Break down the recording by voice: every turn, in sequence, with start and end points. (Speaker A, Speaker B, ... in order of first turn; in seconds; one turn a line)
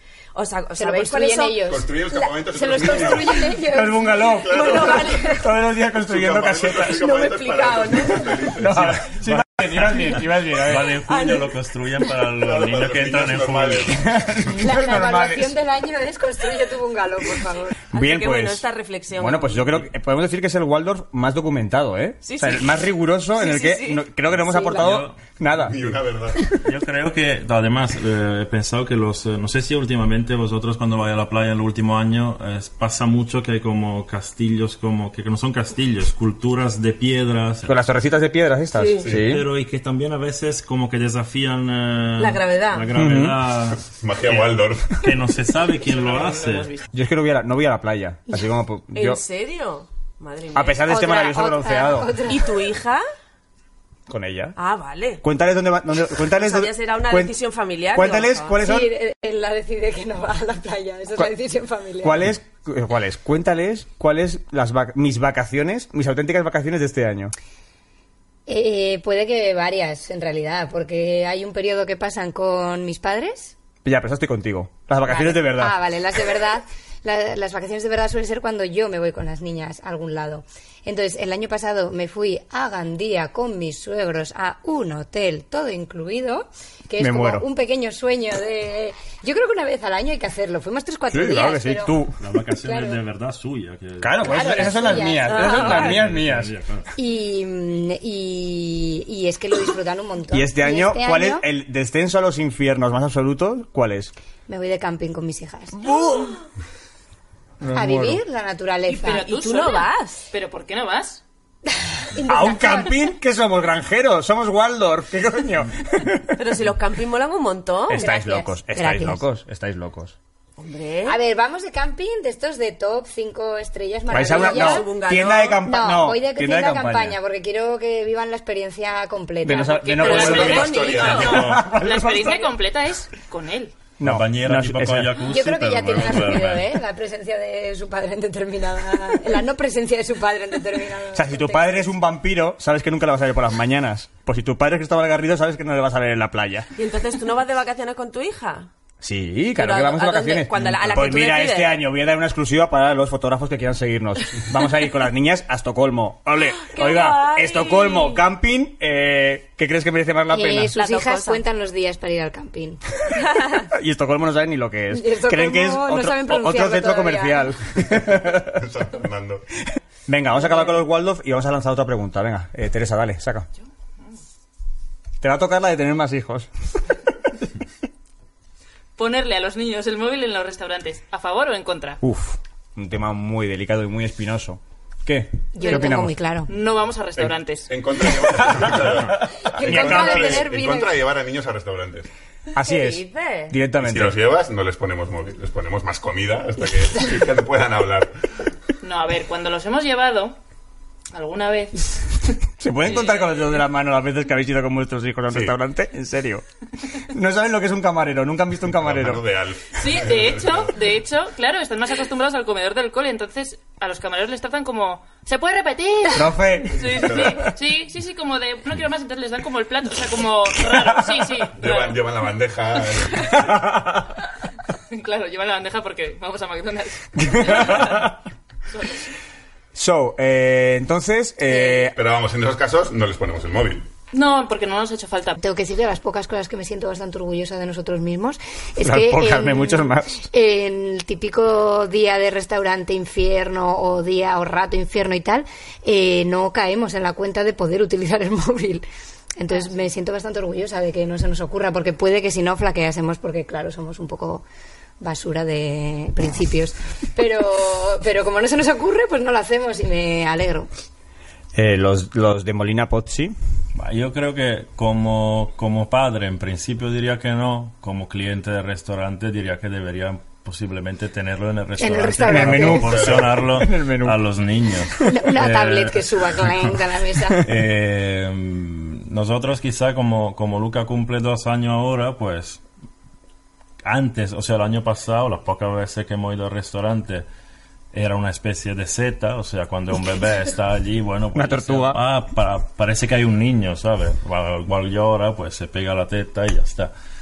Speaker A: 0.3-3.5
Speaker B: 0.8-1.9
Speaker C: 1.6-3.6
Speaker B: 2.5-4.2
Speaker D: 3.7-7.1
Speaker A: 4.1-5.5
Speaker C: 4.2-5.3
Speaker C: 6.0-9.2
Speaker A: 6.8-8.4
Speaker D: 8.6-11.0
Speaker E: 9.3-14.1
Speaker A: 11.1-11.6
Speaker C: 12.4-14.0
Speaker D: 13.9-15.6
Speaker B: 14.4-17.8
Speaker D: 17.9-18.6
Speaker A: 17.9-19.8
Speaker D: 19.2-25.8
Speaker A: 22.2-22.8
Speaker A: 23.4-24.1
Speaker B: 24.5-24.8
Speaker E: 24.5-25.2
Speaker C: 25.6-26.5
Speaker E: 26.6-37.8
Speaker D: 37.6-39.5
Speaker A: 38.8-39.1
Speaker E: 39.2-46.8
Speaker A: 42.2-43.0
Speaker D: 43.0-43.4
Speaker C: 43.8-45.1
Speaker F: 45.8-46.8
Speaker D: 46.9-49.2
Speaker A: 48.9-51.1
Speaker D: 50.5-52.2
Speaker B: 50.9-52.5
Speaker A: 52.3-53.0
Speaker D: 54.1-54.6
Speaker A: 54.6-55.2
Speaker D: 55.2-57.4
Speaker A: 56.3-58.6
Speaker D: 57.9-58.9
Speaker B: 58.6-62.2
Speaker D: 62.0-67.3
Speaker B: 68.5-73.6
Speaker D: 73.8-75.8
Speaker B: 75.0-92.0
Speaker D: 87.0-87.5
Speaker D: 91.1-92.2
Speaker E: 92.2-96.9
Speaker B: 92.6-93.0
Speaker D: 94.0-96.5
Speaker B: 94.3-95.8
Speaker A: 95.3-96.0
Speaker B: 97.0-101.5
Speaker D: 100.3-104.1
Speaker B: 104.5-106.0
Speaker D: 105.8-106.4
Speaker D: 107.6-108.2
Speaker B: 107.7-109.2
Speaker A: 108.9-110.2
Speaker F: 109.0-111.2
Speaker B: 112.1-113.0
Speaker D: 112.2-116.4
Speaker A: 116.4-118.0
Speaker D: 117.9-120.2
Speaker B: 118.0-119.2
Speaker A: 120.6-121.2
Speaker B: 121.0-124.9
Speaker A: 124.1-125.6
Speaker D: 124.1-127.2
Speaker B: 125.6-130.6
Speaker D: 129.4-132.5
Speaker A: 130.0-131.4
Speaker F: 130.0-133.7
Speaker C: 130.0-131.6
Speaker D: 134.0-135.3
Speaker E: 134.0-136.7
Speaker B: 135.2-141.9
Speaker D: 141.2-146.7
Speaker A: 146.8-148.7
Speaker D: 149.0-160.8
Speaker A: 149.6-151.8
Speaker A: 156.6-158.2
Speaker B: 160.3-162.8
Speaker A: 160.7-161.4
Speaker D: 163.7-168.6
Speaker B: 164.9-167.6
Speaker C: 167.8-169.4
Speaker D: 170.1-173.5
Speaker D: 175.2-176.5
Speaker F: 179.0-182.0
Speaker D: 182.0-186.2
Speaker B: 185.6-186.5
Speaker F: 186.5-187.7
Speaker C: 187.2-192.1
Speaker B: 189.5-190.9
Speaker D: 189.6-190.5
Speaker D: 192.6-194.2
Speaker A: 192.6-193.6
Speaker C: 193.8-198.1
Speaker F: 198.8-200.4
Speaker F: 201.1-203.5
Speaker D: 202.6-206.4
Speaker C: 205.3-205.6
Speaker D: 207.0-209.2
Speaker C: 208.7-210.7
Speaker F: 209.8-222.0
Speaker D: 216.1-217.4
Speaker C: 217.0-217.4
Speaker C: 221.6-223.6
Speaker D: 223.6-224.0
Speaker F: 224.9-228.1
Speaker D: 227.2-228.1
Speaker F: 228.7-229.1
Speaker D: 229.7-232.0
Speaker C: 231.9-233.9
Speaker F: 234.1-235.4
Speaker B: 235.4-248.8
Speaker D: 238.8-240.3
Speaker B: 249.4-254.4
Speaker B: 255.0-260.7
Speaker D: 261.6-263.4
Speaker E: 263.8-276.0
Speaker B: 271.8-272.9
Speaker D: 272.3-274.2
Speaker C: 272.8-273.5
Speaker B: 275.0-277.4
Speaker E: 277.4-282.6
Speaker E: 283.8-287.3
Speaker E: 287.9-296.9
Speaker D: 291.4-292.0